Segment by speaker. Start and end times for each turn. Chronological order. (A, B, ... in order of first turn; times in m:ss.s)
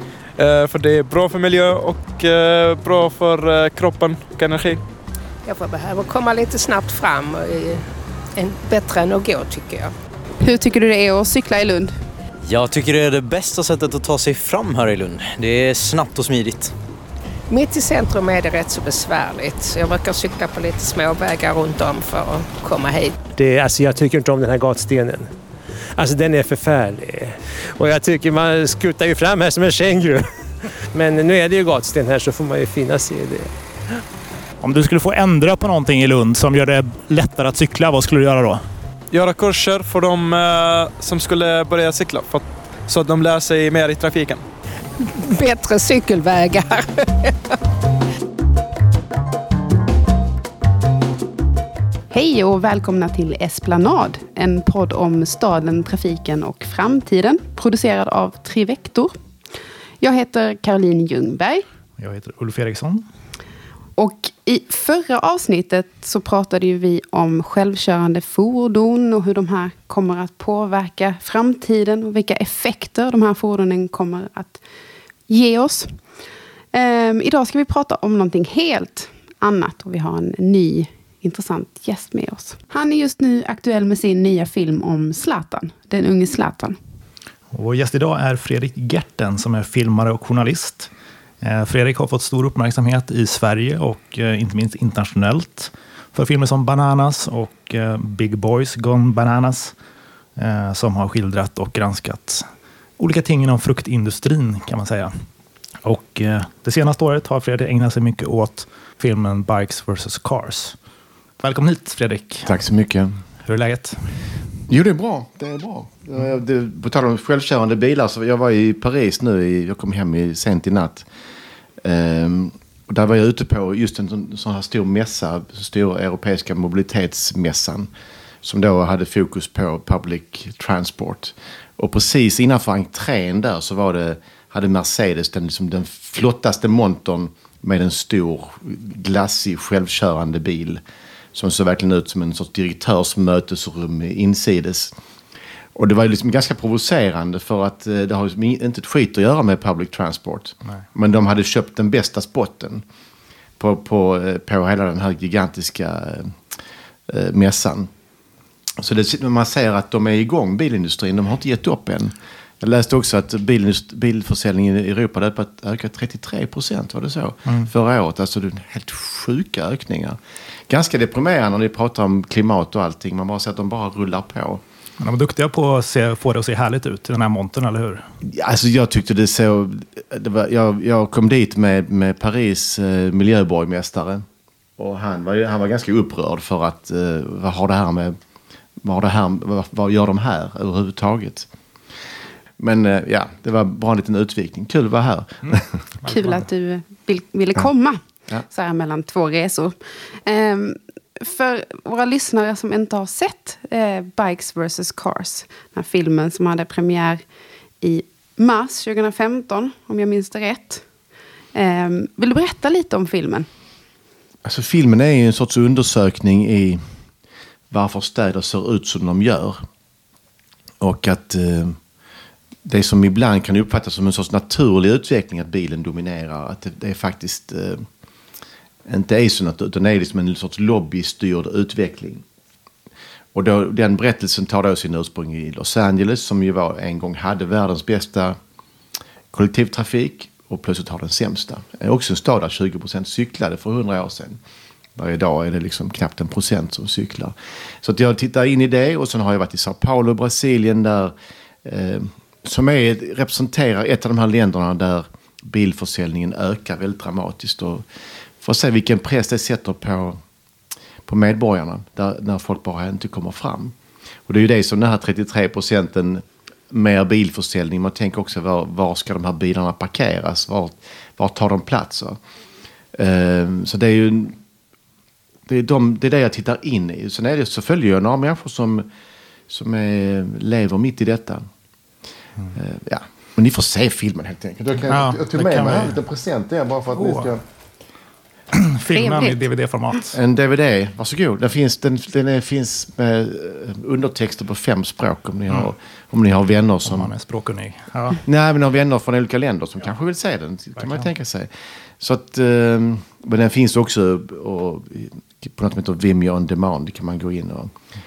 0:00.4-0:04.8 A
0:05.4-0:09.9 B
0:10.4-0:12.0 C
0:12.4-0:16.8 D
0:17.5-0:23.2 B
0:23.3-0:25.3 E
0:25.9-0:33.5 E
0:34.6-0:38.6 F
0:39.1-0:44.4 A
0:45.0-0:47.4 B
0:52.1-0:59.2 C
1:00.0-1:01.6 C
1:02.0-1:03.0 F
1:04.0-1:14.6 C
1:15.3-1:16.0 C
1:16.7-1:26.8 C
1:27.5-1:30.9 F
1:31.4-1:39.7 F
1:40.4-1:42.5 F
1:43.0-1:45.2 F
1:45.8-1:50.8 F
1:51.4-1:52.5 F
1:52.4-1:53.2 G
1:53.4-1:54.3 F
1:54.7-2:01.1 G
2:01.8-2:07.9 G
2:08.4-2:20.8 G
2:21.3-2:24.9 G
2:25.8-2:32.8 G
2:33.6-2:36.4 G
2:37.1-2:37.9 G
2:38.8-2:54.6 G
2:47.5-2:47.7 F
2:55.0-2:58.1 F
2:58.2-3:04.3 G
3:04.8-3:08.2 G
3:08.8-3:11.5 G
3:12.6-3:15.8 G
3:15.4-3:16.4 F
3:16.1-3:27.2 C
3:27.8-3:30.8 C
3:31.5-3:33.5 C
3:34.4-3:36.8 G
3:37.7-3:39.6 G
3:40.8-3:41.8 G
3:42.6-3:47.9 G
3:48.9-3:52.2 G
3:53.3-3:58.4 G
3:59.3-4:04.4 G
4:05.0-4:17.8 G
4:18.4-4:20.2 G
4:21.1-4:23.8 G
4:24.3-4:32.2 G
4:32.9-4:34.4 G
4:35.5-4:38.9 G
4:39.5-4:41.5 G
4:42.5-4:47.4 G
4:44.9-4:46.0 F
4:47.0-4:47.3 F
4:48.5-4:50.2 F
4:49.0-4:49.4 C
4:50.1-4:57.1 G
4:56.9-4:58.2 F
4:58.2-5:07.7 G
5:00.8-5:01.0 F